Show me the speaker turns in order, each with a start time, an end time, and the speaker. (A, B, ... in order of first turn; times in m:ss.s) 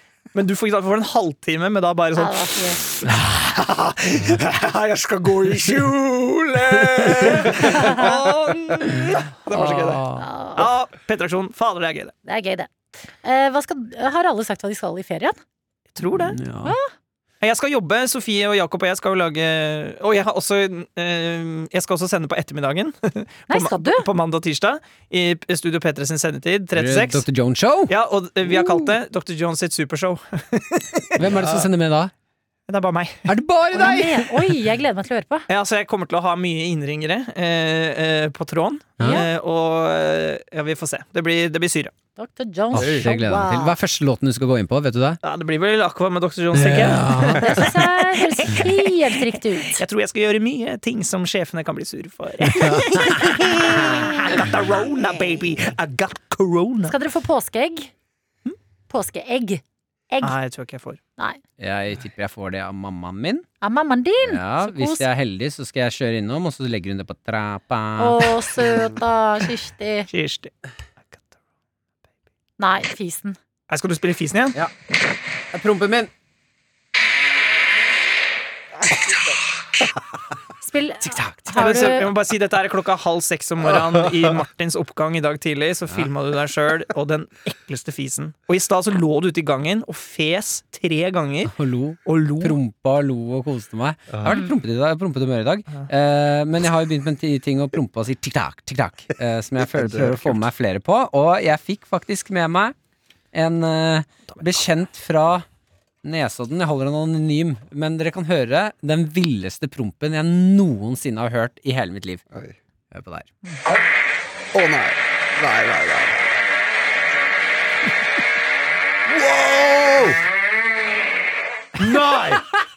0:00.3-0:10.0 A
0:02.1-0:02.8 B
0:09.5-0:10.2 C
0:10.2-0:10.7 B
0:10.5-0:12.1 A
0:12.2-0:15.4 B
0:15.9-0:16.4 A
0:16.2-0:16.8 C
0:16.6-0:16.9 B
0:17.4-0:27.2 A
0:23.5-0:24.1 B
0:26.7-0:27.9 C
0:27.9-0:31.6 A
0:28.5-0:28.9 C
0:31.2-0:32.1 C
0:31.2-0:31.6 D
0:32.7-0:33.3 A
0:33.3-0:34.3 C
0:33.7-0:35.4 B
0:35.5-0:41.9 A
0:39.0-0:39.3 B
0:42.2-0:43.8 B
0:42.7-0:45.2 C
0:42.8-0:43.1 D
0:45.2-0:48.9 A
0:46.5-0:47.7 C
0:47.3-0:49.8 B
0:49.7-0:57.0 A
0:56.8-0:57.9 B
0:58.9-1:00.4 B
1:00.2-1:01.0 A
1:01.6-1:03.4 C
1:03.6-1:05.1 B
1:04.2-1:08.3 C
1:08.0-1:10.1 B
1:10.1-1:10.5 A
1:12.6-1:13.4 B
1:13.7-1:14.6 A
1:15.5-1:16.1 C
1:20.6-1:22.1 B
1:21.0-1:21.6 C
1:21.5-1:31.5 A
1:31.5-1:42.7 C
1:32.0-1:32.6 A
1:34.1-1:34.4 D
1:39.6-1:40.4 D
1:43.3-1:45.4 C
1:46.0-1:52.2 C
1:52.9-1:53.3 C
1:54.5-1:56.2 D
1:59.1-2:00.2 D
2:01.8-2:02.4 D